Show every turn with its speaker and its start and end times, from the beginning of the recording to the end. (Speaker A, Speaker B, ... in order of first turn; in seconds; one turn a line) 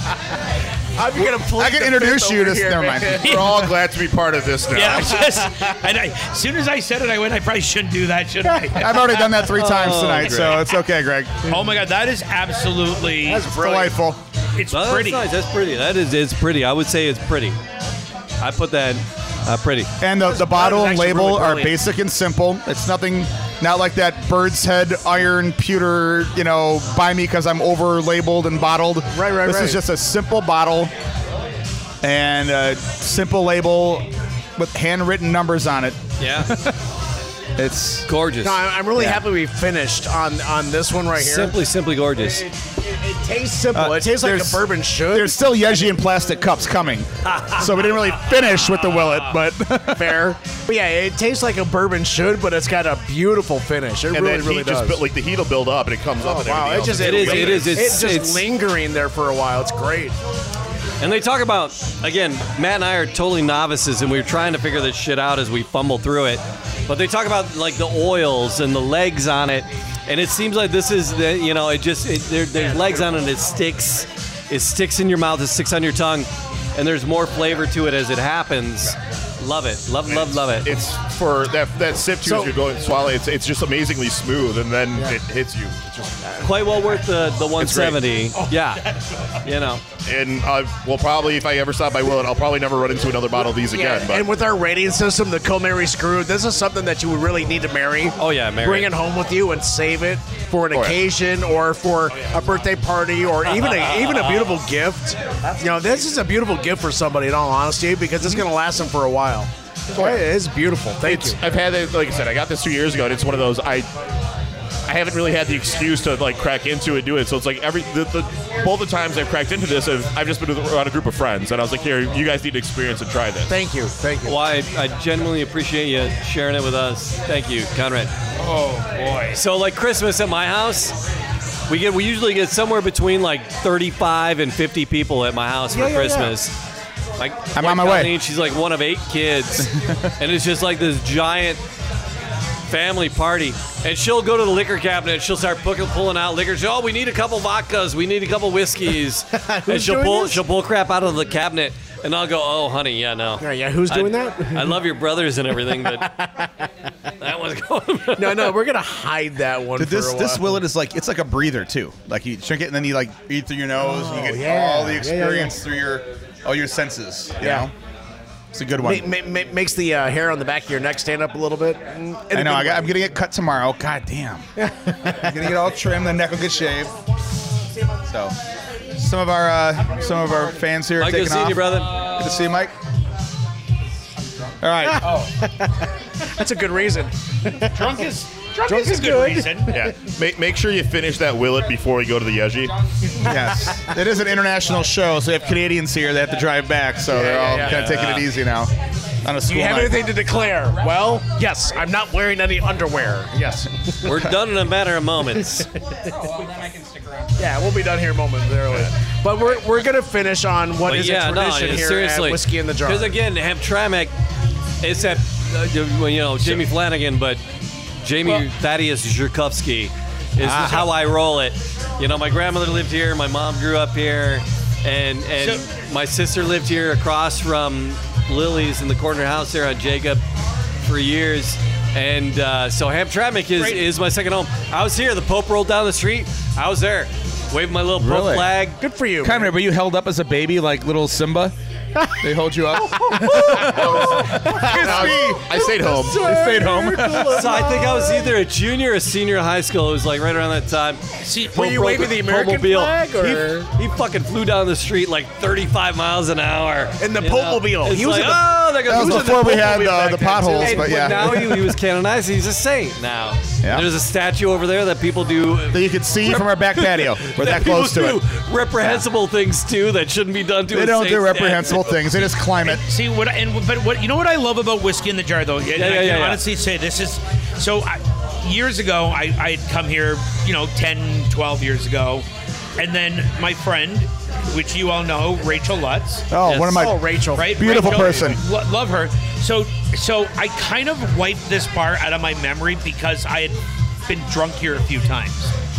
Speaker A: 1.0-3.6
Speaker B: 1.5-3.2
Speaker C: 3.1-5.2
Speaker D: 3.2-3.7
Speaker D: 4.7-9.2
Speaker A: 4.9-5.7
Speaker A: 8.4-9.2
Speaker B: 8.8-11.4
Speaker E: 9.5-10.6
Speaker D: 11.4-13.5
Speaker A: 13.2-14.0
Speaker B: 13.5-14.2
Speaker D: 14.6-15.3
Speaker E: 14.7-17.6
Speaker E: 18.4-19.9
Speaker B: 20.0-30.9
Speaker A: 20.2-21.8
Speaker A: 29.1-29.8
Speaker B: 32.0-36.7
Speaker E: 36.2-36.5
Speaker B: 37.6-38.1
Speaker E: 38.1-38.6
Speaker A: 38.4-41.5
Speaker B: 38.9-39.2
Speaker E: 41.1-42.4
Speaker A: 42.2-45.9
Speaker B: 43.7-50.2
Speaker A: 49.9-55.0
Speaker C: 54.1-57.9
Speaker A: 56.2-60.1
Speaker E: 56.9-58.5
Speaker E: 61.0-80.7
Speaker C: 80.0-86.0
Speaker A: 82.2-82.5
Speaker A: 86.2-86.5
Speaker E: 86.4-88.8
Speaker C: 87.6-88.0
Speaker E: 89.4-89.8
Speaker C: 90.0-94.3
Speaker A: 93.7-111.4
Speaker E: 98.2-98.9
Speaker C: 100.7-101.0
Speaker E: 103.5-104.6
Speaker E: 105.6-106.0
Speaker C: 109.9-110.2
Speaker C: 111.0-113.9
Speaker C: 114.8-123.5
Speaker A: 123.5-124.4
Speaker E: 124.2-128.1
Speaker D: 128.4-129.4
Speaker E: 129.3-130.9
Speaker E: 131.7-136.5
Speaker A: 135.7-136.4
Speaker E: 137.2-141.6
Speaker B: 137.5-138.2
Speaker B: 139.7-140.1
Speaker E: 142.7-156.1
Speaker A: 149.4-150.4
Speaker A: 153.4-154.8
Speaker A: 155.7-156.7
Speaker E: 157.2-158.6
Speaker A: 158.2-160.6
Speaker B: 159.8-167.7
Speaker A: 163.8-165.6
Speaker A: 167.4-167.7
Speaker B: 168.5-169.1
Speaker A: 168.8-172.9
Speaker B: 172.3-174.4
Speaker A: 174.6-175.5
Speaker B: 175.2-176.9
Speaker B: 178.1-178.3
Speaker B: 179.0-182.7
Speaker E: 181.0-181.9
Speaker B: 184.6-185.1
Speaker D: 185.0-185.3
Speaker A: 185.0-188.0
Speaker D: 187.7-189.8
Speaker A: 188.7-189.9
Speaker C: 189.7-192.7
Speaker A: 193.2-193.8
Speaker B: 193.2-198.7
Speaker A: 197.1-198.1
Speaker B: 199.2-200.0
Speaker A: 199.4-204.1
Speaker E: 204.0-205.7
Speaker A: 205.4-205.7
Speaker A: 207.4-213.2
Speaker E: 210.8-214.1
Speaker E: 214.8-217.4
Speaker E: 218.0-230.2
Speaker A: 220.4-220.9
Speaker E: 230.8-238.8
Speaker D: 233.6-233.9
Speaker B: 238.0-238.6
Speaker A: 238.8-239.5
Speaker B: 239.2-241.5
Speaker B: 242.2-245.5
Speaker A: 242.8-248.4
Speaker C: 243.6-246.3
Speaker B: 246.2-247.5
Speaker E: 247.3-251.0
Speaker D: 251.2-251.6
Speaker A: 251.5-253.7
Speaker E: 251.5-259.9
Speaker A: 257.0-261.8
Speaker B: 258.9-261.6
Speaker E: 260.6-271.9
Speaker B: 263.6-263.9
Speaker B: 265.7-268.2
Speaker B: 270.7-272.8
Speaker D: 272.6-282.2
Speaker E: 275.7-276.4
Speaker D: 282.8-286.2
Speaker B: 286.3-288.4
Speaker E: 286.4-286.9
Speaker A: 286.7-288.4
Speaker D: 287.3-295.5